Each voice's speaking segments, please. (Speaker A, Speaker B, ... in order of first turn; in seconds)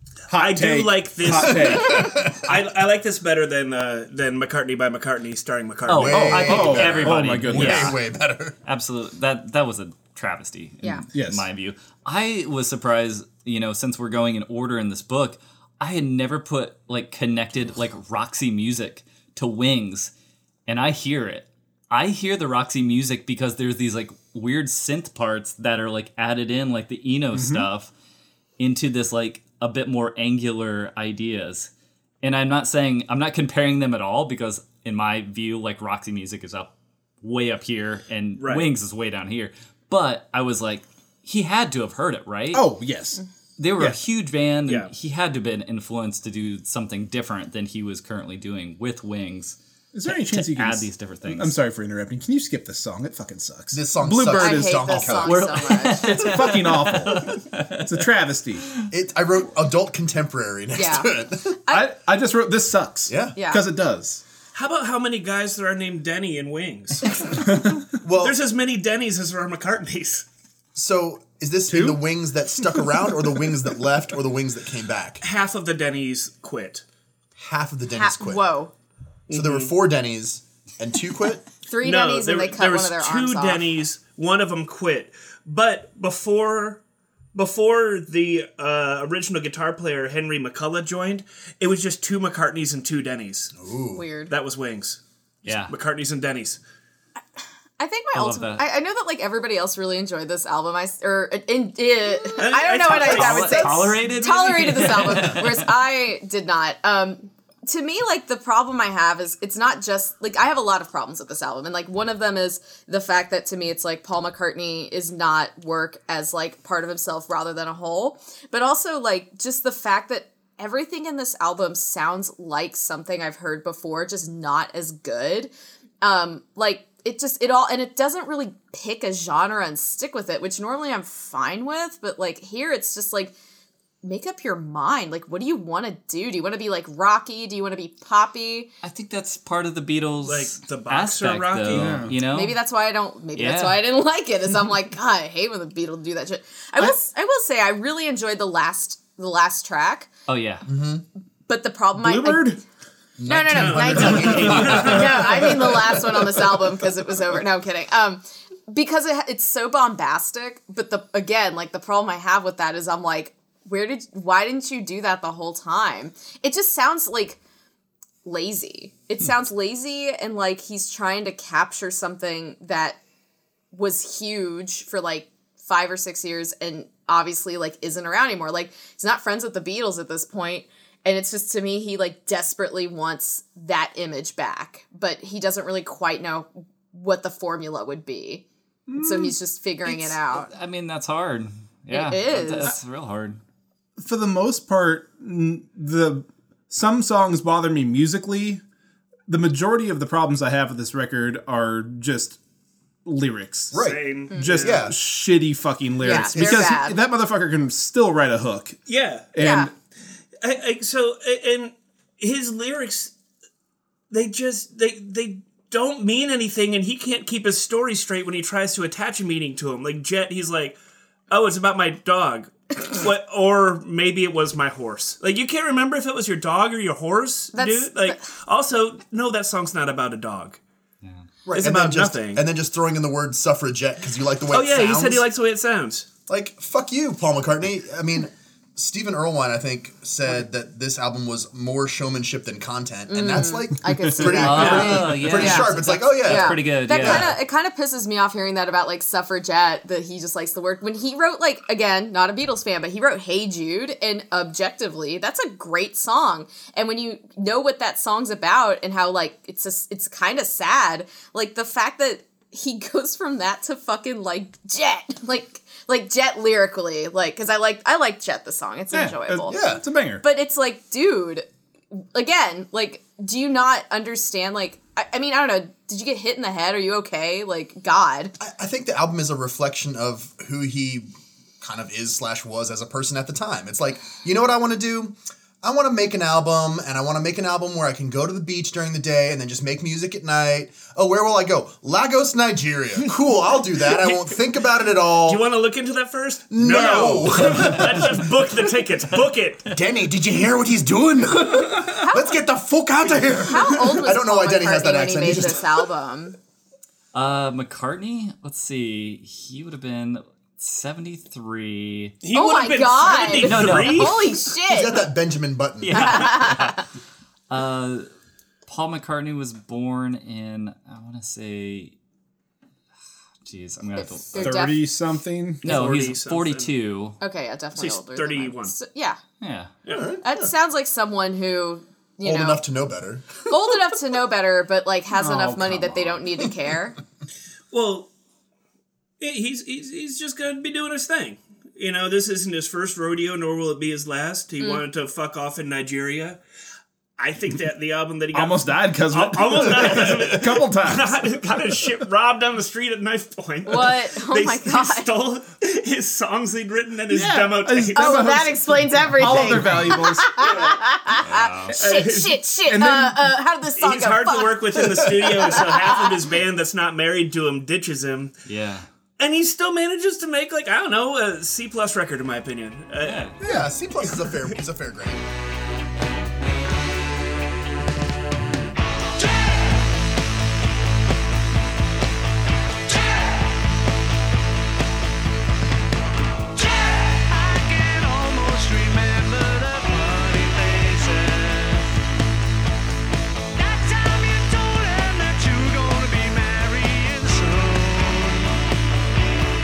Speaker A: 0.3-2.4, 6.1-8.0, 11.1-11.5, 27.3-27.7, 42.5-43.2, 49.9-55.1, 55.8-58.7, 61.7-64.2, 67.5-67.8, 71.7-72.0, 141.7-142.2, 151.9-152.6, 188.9-189.3, 194.0-198.6, 199.3-202.4, 203.0-203.8, 204.3-208.8, 209.3-209.7, 268.9-270.2, 324.4-325.6, 335.1-336.2, 348.3-351.3, 357.1-360.6, 362.6-363.3
Speaker B: 0.3-7.2, 38.4-38.7, 64.5-67.2, 68.2-70.2, 75.2-76.8, 79.3-79.7, 81.8-86.8, 87.3-93.5, 94.3-96.6, 102.3-104.0, 140.2-142.1, 153.5-155.1, 203.7-204.8, 208.9-209.3, 210.4-213.1, 214.1-220.8, 221.3-230.6, 231.5-232.4, 234.5-236.1, 295.2-299.7, 312.2-314.4, 325.6-326.7, 327.7-328.8, 329.8-330.1, 337.7-338.1, 339.2-346.4, 347.2-358.2, 360.5-360.7, 361.8-362.4, 363.8-368.4, 369.2-373.4, 374.1-374.4
Speaker C: 1.4-2.5, 6.0-8.6, 53.7-55.4, 58.9-61.6, 63.1-63.4, 68.0-68.3, 70.7-75.2, 77.4-78.4, 79.3-81.4, 93.5-94.0, 150.7-151.0, 153.2-156.1, 203.7-204.0, 204.6-204.9, 206.1-206.7, 231.5-235.2, 236.3-247.3, 269.5-269.8, 278.4-281.1, 281.6-295.4, 296.5-298.5, 299.7-305.9, 314.7-316.3, 329.9-330.5, 332.2-333.4, 364.8-365.3, 373.4-375.2
Speaker D: 5.9-8.0, 8.6-20.1, 20.7-27.9, 28.6-31.7, 32.2-42.7, 43.6-51.5, 55.2-57.9, 95.4-95.7, 98.1-98.7, 102.8-105.7, 138.8-142.6, 143.3-143.8, 150.3-150.7, 189.8-193.4, 244.3-247.3, 307.1-312.1, 313.4-314.3, 315.8-316.8, 317.5-318.1, 318.6-321.9, 323.4-324.6, 325.6-327.2, 329.4-329.7, 361.2-361.8, 368.4-368.9, 373.0-373.4
Speaker E: 54.2-56.5, 60.8-61.1, 63.4-63.6, 77.9-78.7, 81.7-83.7, 93.9-94.3, 97.8-125.5, 126.0-133.3, 134.0-138.7, 142.2-150.1, 151.5-152.5, 153.2-167.4, 168.2-173.0, 173.7-190.5, 191.9-192.7, 204.3-204.6, 206.0-207.0, 209.4-209.7, 227.5-228.2, 243.1-269.6, 270.2-271.4, 272.0-278.3, 302.0-302.3, 303.4-306.4, 312.3-315.1, 315.9-316.8, 324.0-324.9, 327.2-329.2, 330.2-332.6, 333.5-337.0, 353.7-355.1, 357.9-366.2
Speaker F: 379.2-379.5, 382.9-383.2, 386.6-391.9, 393.5-398.6